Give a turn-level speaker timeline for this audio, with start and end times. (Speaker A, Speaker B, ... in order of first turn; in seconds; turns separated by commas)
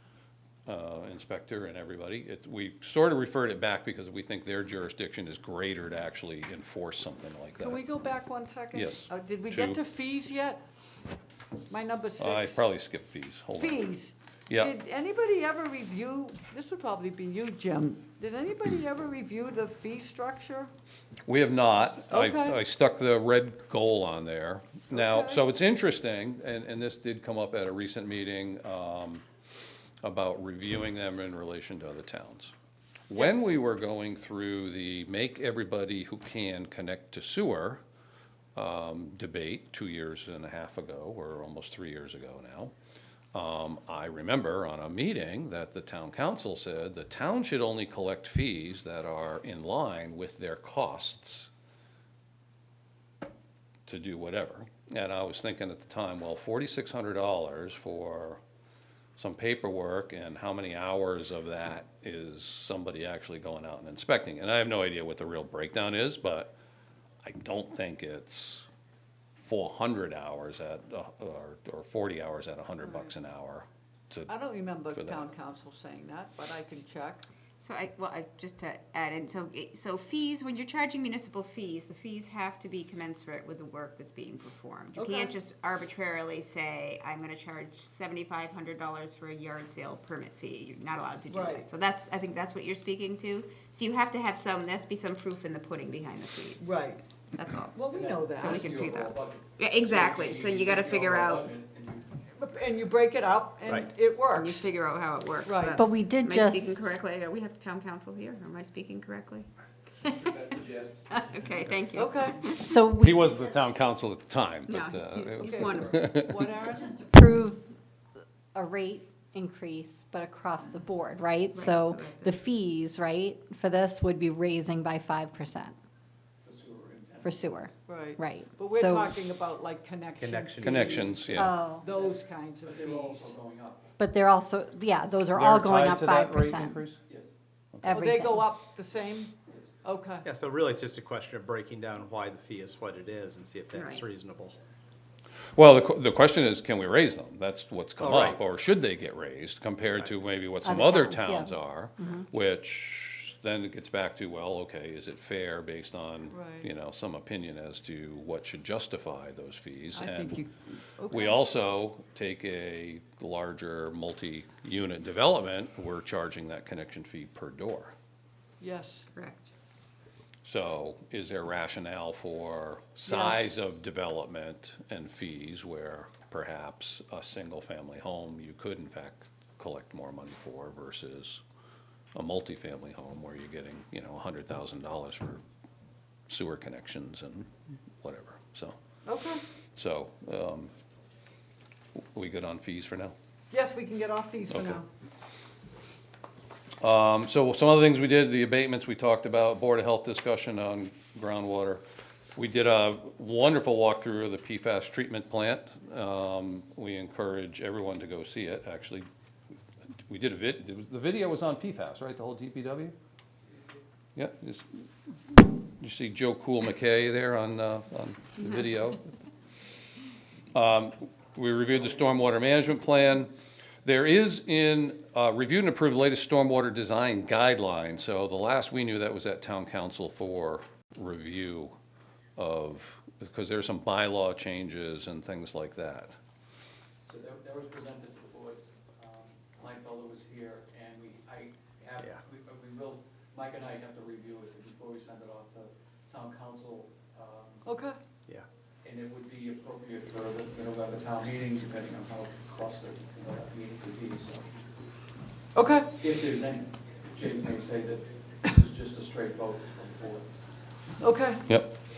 Speaker A: 0.7-7.8, Speaker B: 7.6-10.6, Speaker A: 8.7-9.8, Speaker B: 11.7-12.6, Speaker A: 12.2-13.8, Speaker B: 13.6-20.7, Speaker A: 21.2-29.2, Speaker B: 22.1-22.6, Speaker B: 24.9-25.4, Speaker A: 30.0-32.5, Speaker A: 33.1-37.8, Speaker A: 38.5-42.7, Speaker A: 43.3-51.5, Speaker A: 53.9-58.4, Speaker A: 59.2-66.5, Speaker A: 67.2-68.7, Speaker A: 69.4-74.3, Speaker B: 72.8-73.1, Speaker B: 74.3-77.2, Speaker A: 74.9-75.2, Speaker C: 77.6-96.7, Speaker B: 85.0-85.3, Speaker B: 91.3-91.7, Speaker B: 96.6-97.0, Speaker C: 97.3-101.5, Speaker B: 97.7-98.7, Speaker D: 97.9-102.1, Speaker B: 102.4-104.7, Speaker E: 103.7-103.9, Speaker C: 104.3-109.5, Speaker B: 105.4-105.8, Speaker F: 105.7-106.9, Speaker C: 110.0-112.7, Speaker E: 110.2-111.0, Speaker B: 111.9-112.4, Speaker F: 112.6-113.4, Speaker A: 112.9-116.4, Speaker C: 114.7-116.0, Speaker B: 115.4-117.0, Speaker F: 116.9-117.7, Speaker F: 118.5-125.8, Speaker C: 121.5-122.4, Speaker D: 126.4-127.8, Speaker F: 127.2-129.2, Speaker B: 127.9-133.3, Speaker E: 130.2-131.3, Speaker A: 130.6-131.6, Speaker F: 131.3-131.8, Speaker D: 131.9-133.9, Speaker F: 134.0-136.8, Speaker A: 135.3-137.0, Speaker D: 137.1-137.3, Speaker A: 137.7-138.1, Speaker F: 137.8-138.5, Speaker B: 137.9-140.2, Speaker E: 140.2-144.6, Speaker C: 143.7-144.0, Speaker A: 145.6-160.4, Speaker E: 148.0-148.4, Speaker F: 150.6-152.3, Speaker B: 156.3-156.7, Speaker B: 159.9-161.4, Speaker A: 161.1-167.9, Speaker B: 168.6-169.1, Speaker C: 169.1-169.5, Speaker A: 170.4-181.4, Speaker B: 173.1-173.4, Speaker A: 182.1-185.4, Speaker A: 186.3-187.5, Speaker A: 188.0-188.8, Speaker B: 189.1-189.4, Speaker A: 189.8-190.7, Speaker A: 192.1-193.1, Speaker B: 193.5-194.9, Speaker A: 194.5-194.8, Speaker A: 196.8-201.8, Speaker A: 202.3-209.1, Speaker A: 210.1-212.9, Speaker A: 214.2-214.8, Speaker A: 215.4-219.1, Speaker A: 220.5-223.3, Speaker A: 223.8-231.7, Speaker A: 232.4-236.1, Speaker D: 237.0-247.6, Speaker B: 247.7-248.0, Speaker D: 248.8-254.5, Speaker B: 255.5-255.9, Speaker D: 256.0-260.3, Speaker B: 261.0-261.4, Speaker A: 261.5-261.8